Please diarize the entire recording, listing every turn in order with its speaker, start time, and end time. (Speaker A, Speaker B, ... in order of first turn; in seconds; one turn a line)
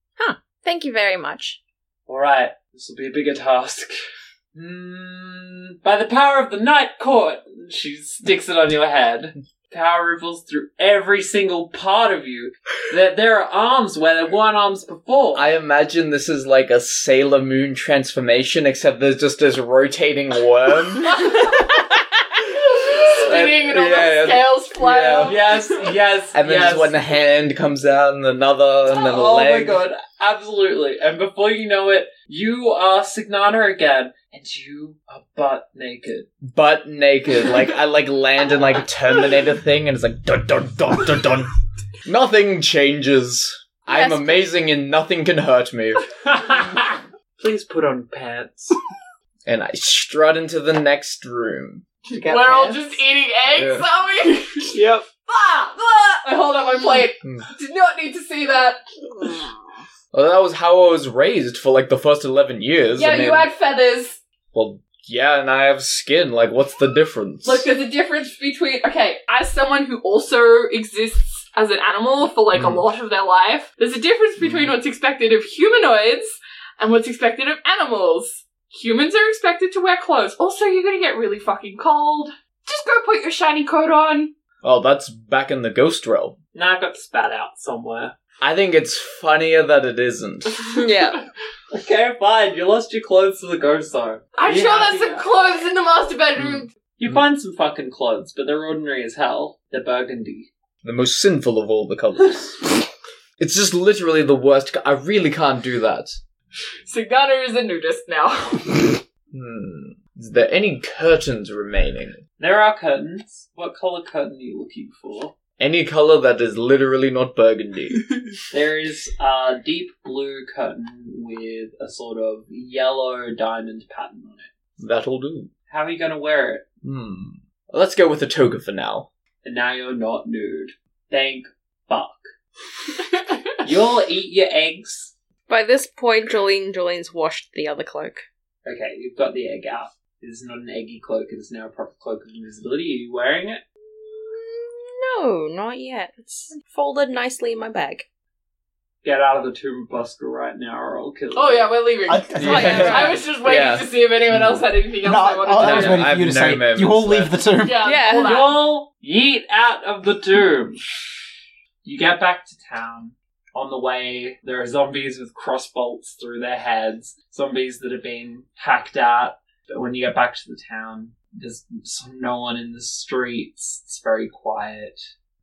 Speaker A: 0.2-1.6
Speaker B: 2.1-3.9
Speaker B: 4.5-15.5
Speaker C: 15.3-21.6
Speaker D: 22.6-25.7
Speaker C: 23.0-25.4
Speaker B: 25.2-27.0
Speaker C: 26.3-29.9
Speaker B: 28.9-36.3
Speaker C: 36.4-41.5
Speaker C: 42.0-46.0
Speaker B: 46.2-48.8
Speaker C: 49.5-51.9
Speaker E: 52.1-53.0
Speaker D: 52.3-59.5
Speaker C: 53.5-53.8
Speaker B: 54.7-55.0
Speaker C: 60.1-63.5
Speaker D: 63.0-64.2
Speaker C: 64.5-67.7
Speaker D: 67.4-84.3
Speaker C: 72.5-72.8
Speaker C: 74.4-74.7
Speaker C: 84.6-86.4
Speaker B: 86.5-88.2
Speaker C: 88.4-90.6
Speaker A: 90.7-91.2
Speaker B: 91.7-95.3
Speaker D: 94.3-96.7
Speaker C: 96.4-97.2
Speaker B: 97.0-100.5
Speaker C: 100.8-102.7
Speaker C: 103.4-106.2
Speaker D: 106.9-109.0
Speaker C: 109.3-112.2
Speaker B: 112.4-115.4
Speaker C: 115.6-118.1
Speaker B: 118.5-124.5
Speaker C: 124.8-125.5
Speaker B: 125.7-126.6
Speaker C: 126.8-129.1
Speaker B: 129.4-132.3
Speaker B: 133.6-135.1
Speaker A: 135.5-138.3
Speaker B: 138.7-143.6
Speaker A: 143.9-148.1
Speaker B: 149.0-151.7
Speaker D: 151.3-156.1
Speaker E: 152.1-153.1
Speaker A: 152.4-153.2
Speaker C: 152.4-154.6
Speaker E: 155.0-157.9
Speaker C: 155.6-157.4
Speaker D: 157.6-158.6
Speaker A: 157.8-158.5
Speaker B: 158.1-160.8
Speaker B: 161.8-175.1